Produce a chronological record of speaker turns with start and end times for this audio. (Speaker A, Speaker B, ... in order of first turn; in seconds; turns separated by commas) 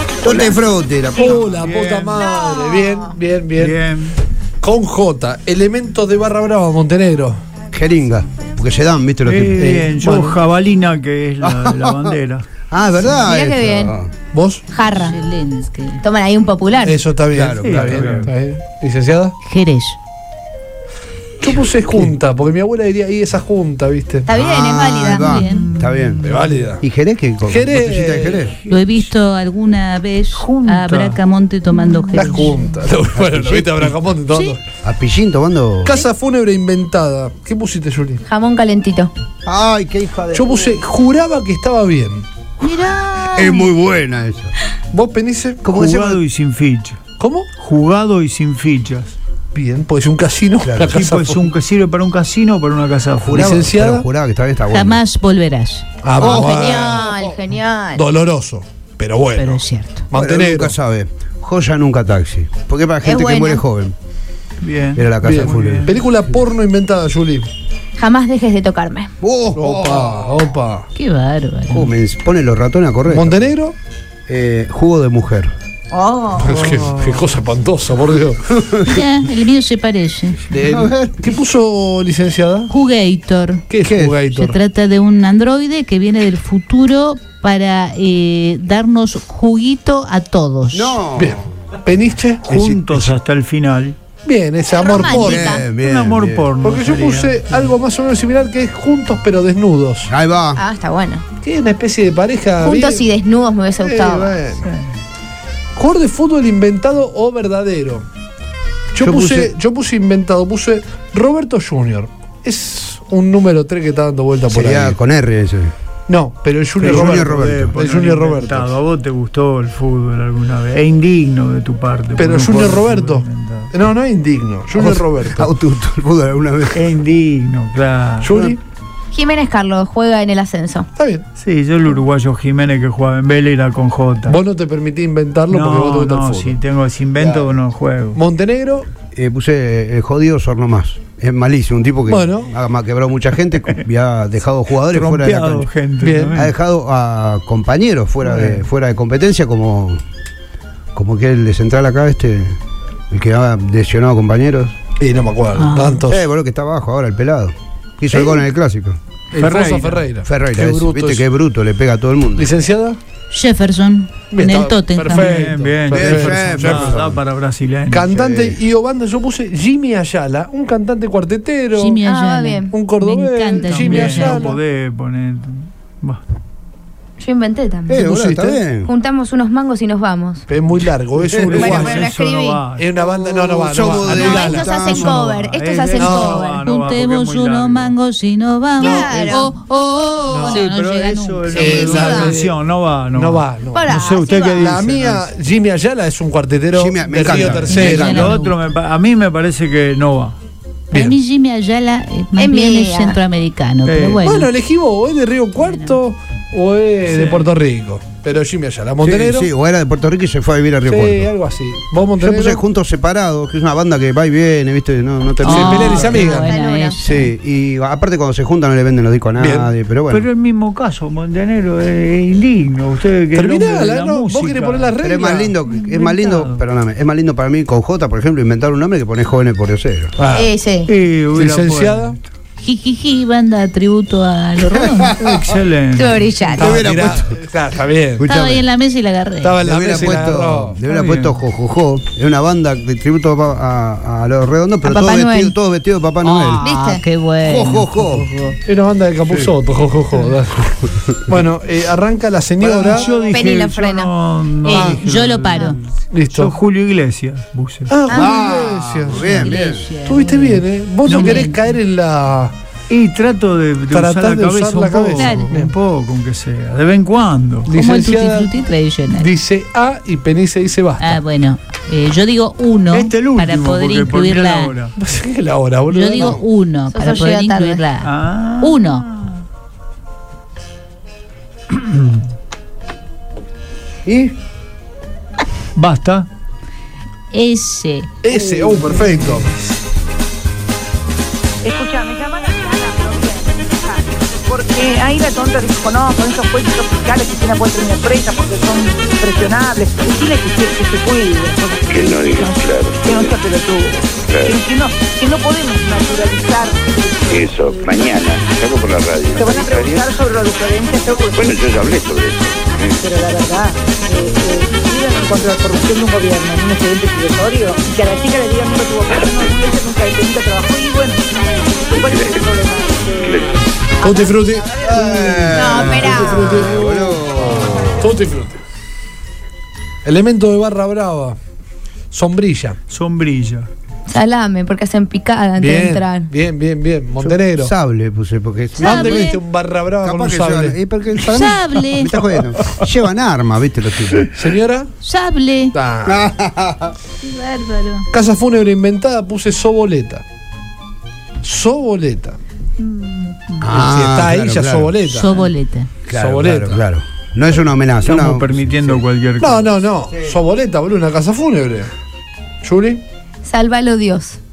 Speaker A: 0.2-1.5, Speaker B: 0.3-0.5, Speaker C: 1.2-3.8, Speaker D: 1.5-2.3, Speaker E: 2.4-2.9, Speaker D: 3.6-4.2, Speaker C: 4.6-7.4, Speaker A: 7.7-9.7, Speaker D: 9.2-12.5, Speaker C: 9.5-10.4, Speaker A: 11.4-12.2, Speaker A: 12.7-14.1, Speaker E: 13.1-13.9, Speaker C: 14.3-14.6, Speaker E: 14.7-15.2, Speaker F: 14.9-16.0, Speaker E: 16.0-17.0, Speaker C: 16.8-19.3, Speaker A: 17.3-18.1, Speaker D: 17.6-18.3, Speaker F: 19.4-20.0, Speaker C: 21.4-24.3, Speaker E: 24.2-25.3, Speaker A: 24.3-26.2, Speaker D: 25.2-26.7, Speaker F: 25.2-25.6, Speaker C: 26.2-26.8, Speaker A: 26.8-28.6, Speaker C: 27.4-28.5, Speaker F: 28.7-32.5, Speaker D: 30.3-31.2, Speaker D: 31.7-32.6, Speaker C: 32.1-34.6, Speaker A: 33.1-34.0, Speaker A: 34.8-36.0, Speaker C: 35.8-38.2, Speaker E: 38.3-39.1, Speaker A: 39.4-40.8, Speaker C: 40.3-42.2, Speaker F: 42.6-43.7, Speaker A: 43.3-44.5, Speaker C: 44.9-45.6, Speaker A: 45.6-46.2, Speaker D: 45.7-47.0, Speaker C: 47.2-47.5, Speaker D: 47.6-49.1, Speaker C: 49.5-51.5, Speaker A: 50.6-51.0, Speaker D: 50.8-53.5, Speaker A: 53.2-55.0, Speaker C: 53.3-54.1, Speaker F: 54.7-55.9, Speaker C: 56.0-57.3, Speaker E: 56.2-58.0, Speaker C: 57.9-60.8, Speaker F: 59.3-60.1, Speaker A: 60.1-63.9, Speaker E: 63.0-63.6, Speaker D: 64.6-66.0, Speaker A: 64.9-66.0, Speaker C: 65.2-67.5, Speaker E: 68.0-69.1, Speaker A: 69.2-70.4, Speaker C: 69.5-70.8, Speaker F: 70.9-71.9, Speaker A: 71.7-73.5, Speaker C: 73.1-73.7, Speaker A: 74.3-75.5, Speaker E: 75.9-76.7, Speaker C: 76.4-78.5, Speaker D: 76.7-77.2, Speaker A: 78.6-79.0, Speaker F: 78.8-80.4, Speaker C: 80.5-82.7, Speaker A: 80.6-81.3, Speaker F: 82.7-83.6, Speaker C: 83.7-84.6, Speaker A: 83.8-84.2, Speaker F: 84.3-91.0, Speaker A: 90.7-91.5, Speaker C: 91.2-92.5, Speaker A: 92.5-93.1, Speaker D: 92.5-94.0, Speaker C: 94.2-95.5, Speaker E: 94.7-95.7, Speaker D: 95.0-97.7, Speaker A: 95.1-96.5, Speaker C: 96.6-100.1, Speaker A: 100.1-100.6, Speaker E: 100.5-101.2, Speaker C: 101.4-103.1, Speaker E: 102.6-104.4, Speaker C: 103.8-104.7, Speaker D: 104.6-104.9, Speaker C: 105.8-108.0, Speaker C: 108.9-114.9, Speaker A: 109.0-109.5, Speaker A: 114.5-115.7, Speaker C: 116.1-118.7, Speaker D: 116.8-123.7, Speaker A: 116.8-117.8, Speaker C: 122.2-125.5, Speaker A: 124.7-126.9, Speaker D: 126.7-128.5, Speaker C: 128.2-128.6, Speaker E: 129.1-130.9, Speaker C: 130.9-131.2, Speaker D: 131.4-134.4, Speaker C: 134.3-136.6, Speaker D: 135.5-138.2, Speaker A: 137.2-137.6, Speaker C: 138.1-138.9, Speaker A: 139.1-145.7, Speaker C: 142.1-142.5, Speaker D: 144.9-146.5, Speaker C: 146.0-146.4, Speaker A: 146.3-150.0, Speaker C: 148.3-148.6, Speaker A: 150.9-152.6, Speaker A: 153.1-154.8, Speaker C: 155.0-156.2, Speaker F: 155.5-156.0, Speaker A: 156.1-159.0, Speaker C: 158.1-158.4, Speaker D: 159.3-160.0, Speaker C: 159.3-161.2, Speaker A: 160.2-162.5, Speaker C: 162.4-163.0, Speaker F: 163.3-165.4, Speaker C: 164.3-167.1, Speaker D: 165.1-168.1, Speaker A: 165.9-167.2, Speaker C: 167.9-172.0, Speaker A: 168.1-168.6, Speaker F: 171.7-174.5, Speaker E: 172.0-172.7, Speaker C: 172.7-174.6, Speaker D: 173.7-176.2, Speaker E: 177.2-178.0, Speaker A: 177.9-178.9, Speaker C: 177.9-178.6, Speaker E: 178.6-180.4, Speaker C: 180.5-182.0, Speaker D: 181.3-182.8, Speaker A: 181.3-181.7, Speaker E: 181.5-182.6, Speaker C: 182.7-184.8, Speaker A: 183.0-185.3, Speaker D: 184.1-187.9, Speaker E: 184.1-186.6, Speaker C: 186.0-186.4, Speaker F: 186.4-192.0, Speaker E: 188.8-189.5, Speaker C: 188.8-189.4, Speaker C: 190.3-190.7, Speaker D: 190.4-195.2, Speaker C: 191.5-192.6, Speaker E: 191.5-192.3, Speaker C: 193.1-194.0, Speaker E: 193.7-194.8, Speaker C: 194.6-198.3, Speaker A: 196.7-198.3, Speaker D: 197.5-200.4, Speaker F: 197.7-198.6, Speaker C: 200.9-201.2, Speaker F: 200.9-204.5, Speaker E: 202.4-203.2, Speaker D: 203.8-204.2, Speaker C: 204.2-209.5, Speaker F: 205.6-206.0, Speaker D: 207.1-207.5, Speaker A: 209.0-211.3, Speaker C: 210.8-212.6, Speaker A: 212.2-216.3, Speaker F: 215.4-217.3, Speaker C: 215.4-216.6, Speaker E: 216.2-217.0, Speaker A: 217.0-220.3, Speaker C: 219.4-219.7, Speaker D: 220.1-225.0, Speaker C: 223.3-225.6, Speaker A: 225.0-230.1, Speaker D: 225.6-226.6, Speaker C: 230.2-230.5, Speaker E: 230.3-230.9, Speaker D: 230.8-232.3, Speaker C: 231.3-232.2, Speaker F: 232.6-235.1, Speaker A: 234.8-235.5, Speaker D: 235.2-236.6, Speaker E: 235.9-236.7, Speaker C: 236.6-238.2, Speaker A: 236.6-237.4, Speaker A: 238.2-238.7, Speaker F: 238.2-239.6, Speaker C: 239.4-240.8, Speaker A: 239.6-246.7, Speaker D: 240.9-241.4, Speaker E: 244.8-245.6, Speaker F: 246.3-248.6, Speaker E: 246.6-247.0, Speaker A: 247.4-248.3, Speaker C: 248.6-253.1, Speaker A: 249.3-249.5, Speaker A: 252.6-253.0, Speaker D: 252.9-255.7, Speaker E: 252.9-254.1, Speaker F: 254.6-255.8, Speaker C: 254.7-255.0, Speaker C: 256.1-256.5, Speaker D: 256.3-257.9, Speaker C: 257.9-262.5, Speaker E: 258.1-258.3, Speaker A: 258.1-259.9, Speaker F: 259.4-261.6, Speaker D: 261.1-261.4, Speaker D: 262.9-267.7, Speaker C: 263.9-265.7, Speaker F: 265.1-265.5, Speaker C: 267.7-268.5, Speaker F: 267.7-269.3, Speaker C: 269.1-271.2, Speaker F: 271.0-274.7, Speaker D: 272.9-274.9, Speaker C: 275.0-276.4, Speaker F: 275.9-278.1, Speaker E: 276.9-277.8, Speaker D: 278.0-279.4, Speaker F: 278.6-279.0, Speaker D: 281.7-282.1, Speaker A: 284.1-284.4, Speaker D: 285.7-286.3, Speaker F: 287.3-288.1, Speaker C: 288.2-289.5, Speaker B: 288.2-289.3, Speaker B: 291.6-308.1, Speaker G: 301.9-303.3, Speaker G: 304.3-304.6, Speaker G: 307.3-310.1, Speaker B: 309.4-311.7, Speaker G: 311.4-312.9, Speaker B: 313.0-325.8, Speaker G: 321.9-322.3, Speaker G: 323.2-323.6, Speaker C: 324.0-324.7, Speaker A: 324.8-328.1, Speaker C: 325.4-328.6, Speaker E: 325.5-326.8, Speaker C: 330.0-331.4, Speaker C: 332.1-332.8, Speaker D: 332.9-333.7, Speaker E: 334.1-336.3, Speaker C: 335.6-337.7, Speaker A: 337.2-339.4, Speaker F: 338.8-339.4, Speaker C: 338.8-340.8, Speaker A: 340.0-344.2, Speaker F: 341.3-342.1, Speaker D: 342.5-342.8, Speaker C: 344.4-344.9, Speaker F: 345.0-345.8, Speaker C: 345.7-346.3, Speaker A: 346.0-346.9, Speaker F: 347.2-348.1, Speaker C: 348.1-350.2, Speaker C: 351.4-352.4, Speaker D: 352.8-353.8, Speaker A: 353.6-355.3, Speaker C: 353.7-355.3, Speaker F: 355.1-355.9, Speaker A: 356.1-359.0, Speaker C: 356.1-356.8, Speaker D: 358.0-359.8, Speaker C: 359.4-361.9, Speaker A: 360.1-360.4, Speaker C: 362.6-363.0, Speaker E: 363.4-364.4